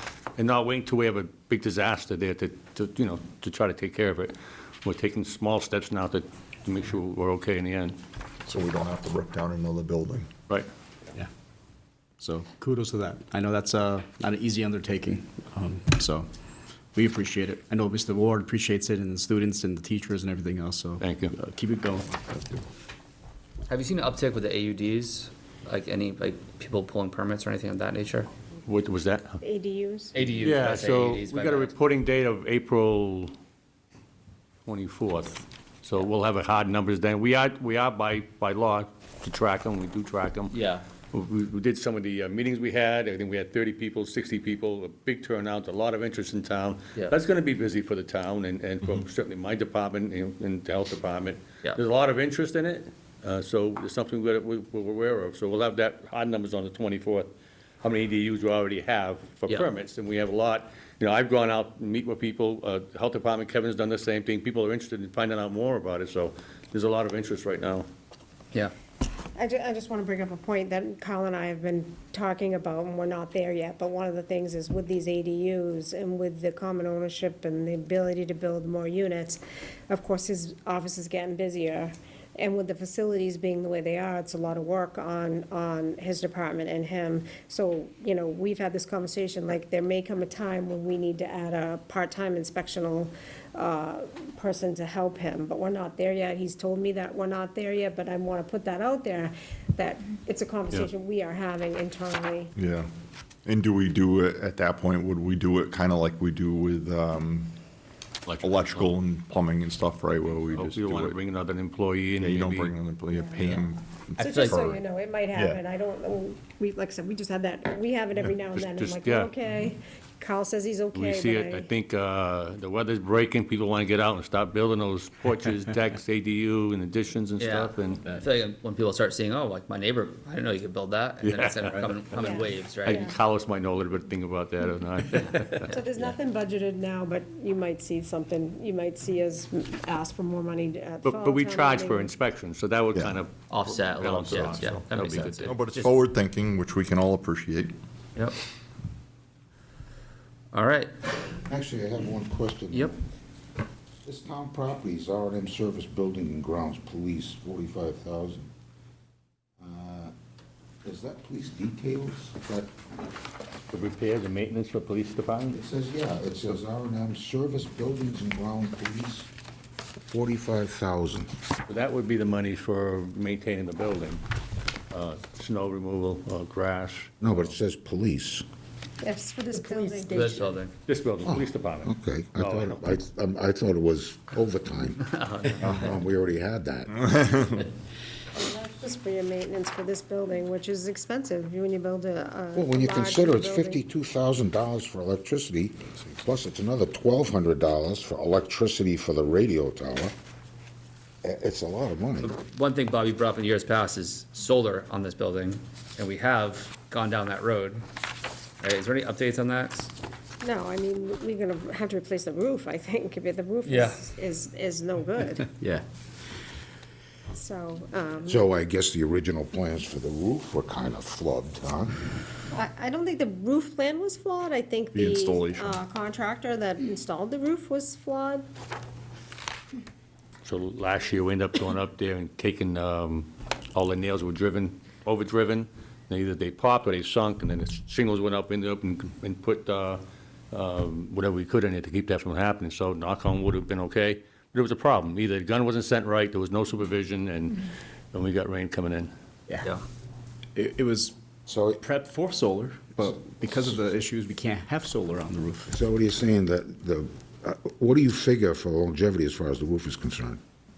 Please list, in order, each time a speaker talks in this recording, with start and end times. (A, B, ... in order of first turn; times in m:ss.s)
0:00.4-0:08.0 A
0:08.4-0:10.3 B
0:12.2-0:16.3 C
0:16.9-0:22.6 C
0:21.0-0:21.3 A
0:23.7-0:28.3 D
0:28.6-0:29.4 A
0:29.4-0:30.2 E
0:30.1-0:31.7 D
0:30.4-0:33.3 A
0:34.6-0:40.6 A
0:40.5-0:40.8 D
0:41.1-0:57.3 A
0:57.8-1:07.9 A
1:09.3-1:42.5 E
1:42.6-1:42.9 B
1:43.4-1:47.5 B
1:48.2-1:48.9 A
1:48.4-1:51.2 B
1:50.5-1:52.7 A
1:52.2-1:54.8 B
1:53.1-1:53.5 E
1:54.2-1:54.6 D
1:54.2-2:01.7 E
1:55.3-1:55.6 B
1:58.5-1:59.3 A
2:00.9-2:08.2 A
2:07.4-2:13.0 D
2:11.2-2:15.8 A
2:12.2-2:13.2 E
2:15.7-2:22.1 E
2:21.0-2:25.6 A
2:22.9-2:23.2 B
2:23.4-2:26.0 D
2:24.3-2:27.7 B
2:30.5-2:30.9 D
2:31.5-2:32.9 F
2:34.0-2:38.5 F
2:39.6-2:40.1 F
2:40.8-2:42.7 F
2:43.7-2:45.6 A
2:45.5-2:49.3 F
2:50.0-2:51.3 F
2:51.7-2:54.2 A
2:54.9-2:57.4 A
2:57.2-2:58.4 F
2:59.0-3:00.5 E
2:59.6-3:00.7 D
3:00.8-3:02.8 A
3:01.8-3:07.1 F
3:05.1-3:05.9 D
3:07.0-3:07.6 B
3:08.3-3:13.8 E
3:12.5-3:20.1 F
3:21.2-3:22.4 F
3:22.2-3:27.8 D
3:28.6-3:29.9 D
3:30.4-3:35.5 E
3:33.6-3:34.0 D
3:37.3-3:38.4 E
3:38.2-3:42.0 F
3:42.5-3:48.4 E
3:45.0-3:45.8 B
3:50.4-4:00.0 A
4:00.5-4:09.1 A
4:10.5-4:11.1 C
4:11.5-4:11.8 F
4:11.8-4:15.7 C
4:15.7-4:20.4 F